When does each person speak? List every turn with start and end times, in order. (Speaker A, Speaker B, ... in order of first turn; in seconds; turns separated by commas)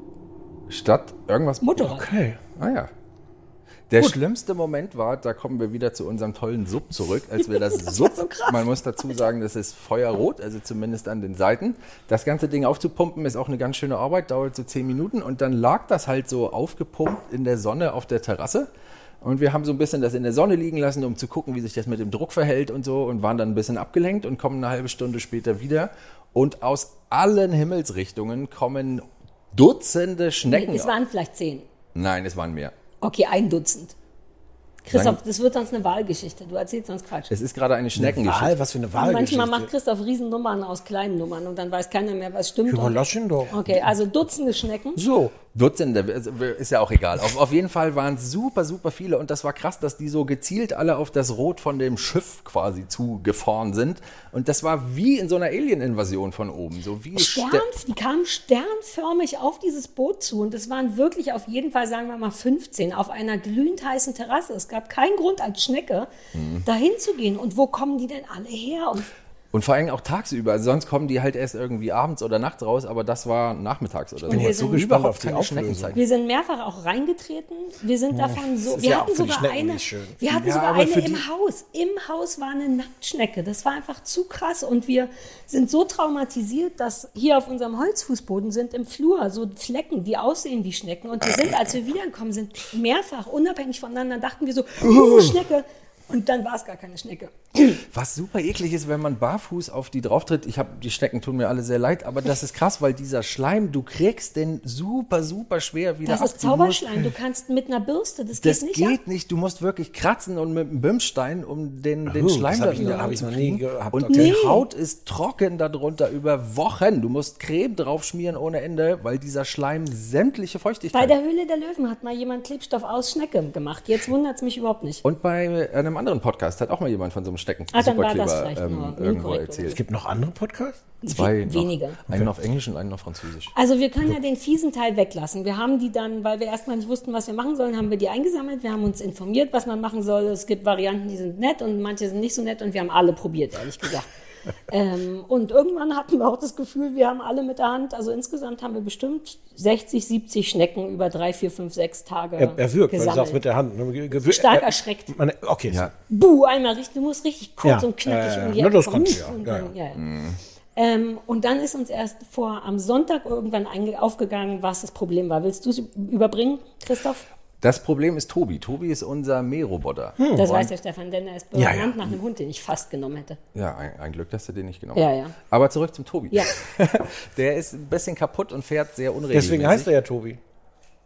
Speaker A: 0.7-1.9, Speaker B: 1.6-2.0, Speaker C: 1.8-2.4, Speaker A: 2.6-2.9, Speaker A: 3.9-18.7, Speaker B: 7.5-9.3, Speaker A: 19.2-30.9, Speaker B: 30.5-31.6, Speaker A: 31.9-32.7, Speaker B: 33.0-34.0, Speaker B: 34.9-37.3, Speaker A: 34.9-35.2, Speaker A: 37.3-38.6, Speaker C: 38.0-39.7, Speaker B: 39.0-45.0, Speaker C: 42.7-43.7, Speaker C: 45.0-45.4, Speaker A: 45.5-57.7, Speaker B: 57.1-66.1, Speaker A: 66.3-66.7, Speaker B: 66.6-69.1, Speaker A: 69.5-76.0, Speaker B: 74.2-74.8, Speaker C: 74.3-76.0, Speaker B: 75.9-97.8, Speaker C: 78.1-80.9, Speaker A: 80.4-81.2, Speaker A: 97.9-107.1, Speaker B: 106.0-109.0, Speaker A: 108.4-121.1, Speaker C: 112.1-114.6, Speaker B: 112.8-113.1, Speaker B: 114.1-114.6, Speaker B: 120.9-125.0, Speaker A: 125.0-129.8, Speaker B: 127.7-129.8, Speaker C: 129.7-130.8, Speaker B: 131.0-132.0, Speaker A: 131.1-133.5, Speaker B: 133.6-144.1, Speaker B: 144.7-153.4, Speaker C: 152.4-155.9, Speaker B: 154.2-155.1, Speaker B: 156.1-160.0, Speaker C: 157.6-159.7, Speaker A: 160.0-160.4, Speaker B: 160.8-167.2, Speaker A: 167.6-170.7, Speaker C: 170.2-170.5, Speaker B: 170.3-173.4, Speaker C: 171.6-172.1, Speaker A: 173.6-179.9, Speaker B: 174.9-175.3, Speaker C: 179.3-180.4